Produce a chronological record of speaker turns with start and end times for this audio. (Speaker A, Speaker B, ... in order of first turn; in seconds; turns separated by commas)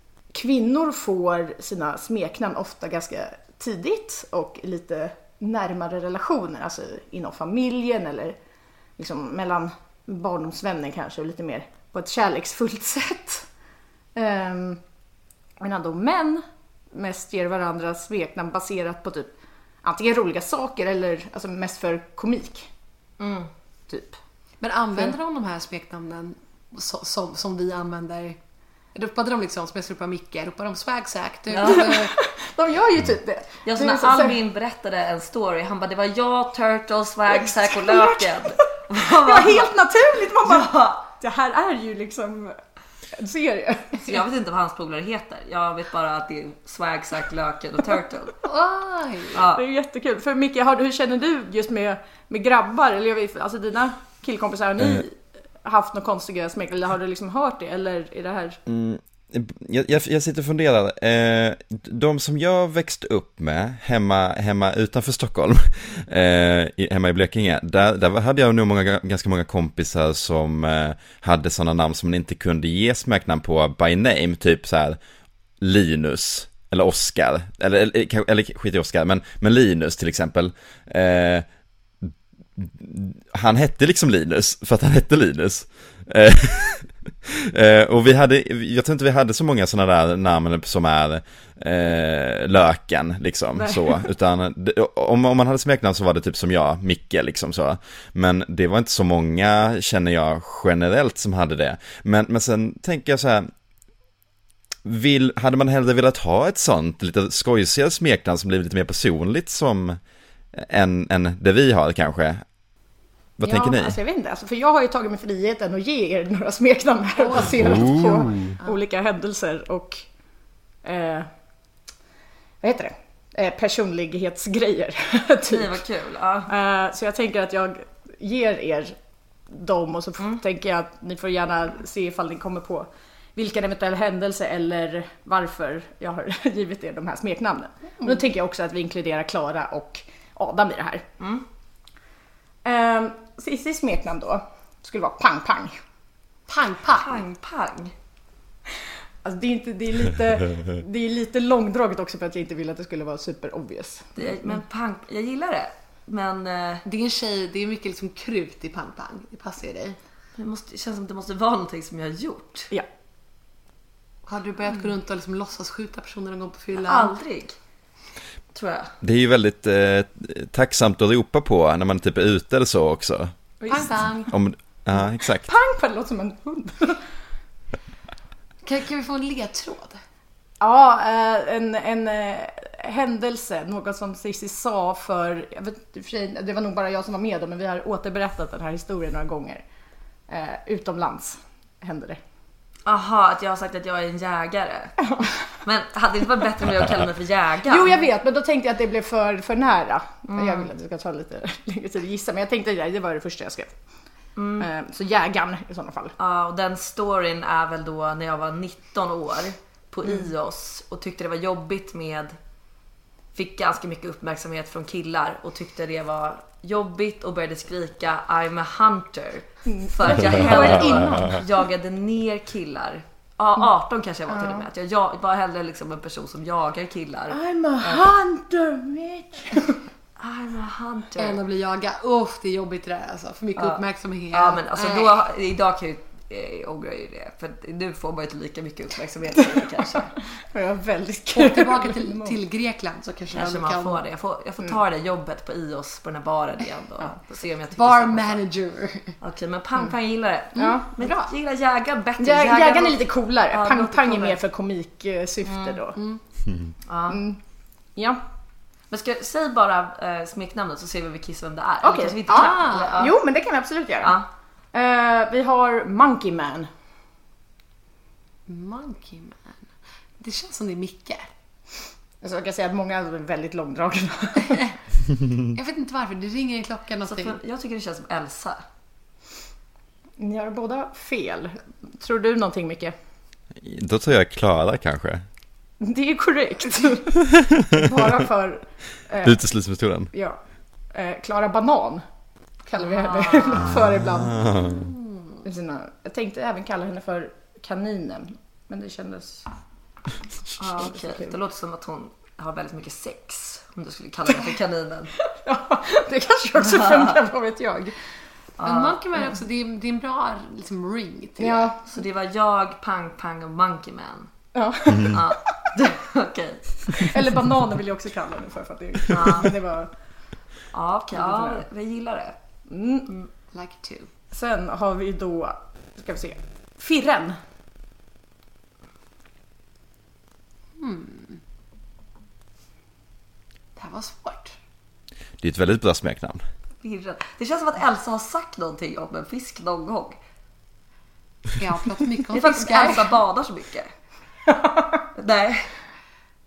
Speaker A: 0.3-8.4, Speaker A: 9.0-13.5, Speaker A: 14.2-14.8, Speaker A: 15.6-22.7, Speaker B: 23.2-23.5, Speaker A: 23.9-24.2, Speaker C: 24.6-28.4, Speaker C: 28.9-32.2, Speaker B: 31.5-31.9, Speaker A: 31.6-34.4, Speaker B: 33.7-39.7, Speaker A: 37.4-38.6, Speaker A: 39.2-42.6, Speaker B: 40.4-41.1, Speaker A: 43.1-44.2, Speaker B: 44.0-48.4, Speaker C: 48.5-49.4, Speaker B: 49.3-49.6, Speaker A: 49.5-58.6, Speaker D: 58.7-75.0, Speaker D: 75.6-81.5, Speaker D: 82.0-103.5, Speaker A: 93.6-94.0, Speaker D: 104.8-110.0, Speaker D: 110.5-112.5, Speaker D: 113.4-114.0, Speaker A: 113.4-120.1, Speaker C: 117.2-118.8, Speaker D: 117.6-118.5, Speaker A: 120.8-121.3, Speaker A: 122.6-125.8, Speaker B: 125.5-126.5, Speaker A: 126.5-129.0, Speaker A: 129.5-141.1, Speaker B: 141.2-141.4, Speaker A: 142.6-145.8, Speaker C: 146.5-147.2, Speaker B: 146.9-147.9, Speaker A: 149.2-154.4, Speaker B: 154.2-156.8, Speaker C: 156.8-160.0, Speaker B: 160.4-162.7, Speaker C: 164.3-167.1, Speaker B: 166.8-167.6, Speaker B: 168.5-168.9, Speaker D: 169.0-173.3, Speaker A: 173.6-174.3, Speaker C: 173.7-174.3, Speaker D: 174.3-175.5, Speaker A: 174.9-177.1, Speaker C: 178.6-180.0, Speaker A: 180.6-189.6, Speaker A: 190.3-192.2, Speaker B: 192.9-195.0, Speaker B: 195.6-197.9, Speaker A: 197.7-203.8, Speaker B: 200.3-200.7, Speaker B: 204.4-204.7, Speaker A: 204.6-206.2, Speaker B: 206.2-212.4, Speaker B: 213.3-228.1, Speaker A: 219.7-221.5, Speaker A: 224.3-224.7, Speaker A: 227.3-229.8, Speaker B: 230.2-231.4, Speaker C: 231.2-235.1, Speaker B: 233.6-240.1, Speaker A: 240.2-242.4, Speaker C: 241.3-244.0, Speaker B: 243.3-248.4, Speaker C: 247.8-249.2, Speaker B: 249.2-254.4, Speaker A: 250.6-251.3, Speaker A: 252.2-256.0, Speaker B: 255.4-255.8, Speaker C: 255.9-256.2, Speaker B: 256.9-257.2, Speaker A: 257.1-257.4, Speaker A: 257.9-258.2, Speaker B: 258.9-263.1, Speaker A: 261.8-264.2, Speaker C: 262.3-263.1, Speaker B: 264.0-264.3, Speaker A: 264.7-266.7, Speaker C: 268.5-269.7, Speaker C: 270.2-271.3, Speaker A: 272.2-274.8, Speaker C: 275.5-277.4, Speaker B: 277.1-278.6, Speaker A: 280.2-282.9, Speaker D: 283.6-285.2, Speaker A: 285.8-289.4, Speaker D: 289.2-290.1, Speaker A: 290.1-290.4, Speaker A: 290.9-292.1, Speaker A: 292.6-294.7, Speaker B: 292.8-293.8, Speaker D: 293.6-294.9, Speaker C: 294.6-295.4, Speaker A: 295.4-299.5, Speaker B: 300.6-305.1, Speaker A: 300.8-301.4, Speaker A: 305.3-308.0, Speaker B: 306.6-307.1, Speaker B: 308.6-309.0, Speaker C: 308.6-311.7, Speaker A: 311.4-311.8, Speaker B: 311.9-314.3, Speaker A: 314.5-315.5, Speaker B: 315.0-317.1, Speaker A: 316.9-319.9, Speaker B: 319.1-319.5, Speaker B: 320.7-322.4, Speaker A: 321.2-321.6, Speaker A: 322.7-323.1, Speaker C: 323.5-324.1, Speaker A: 324.3-327.4, Speaker C: 330.8-331.4, Speaker C: 333.8-334.6, Speaker D: 335.4-336.4, Speaker B: 336.8-340.2, Speaker C: 341.6-343.2, Speaker B: 342.3-343.9, Speaker A: 344.5-345.0, Speaker B: 345.2-345.7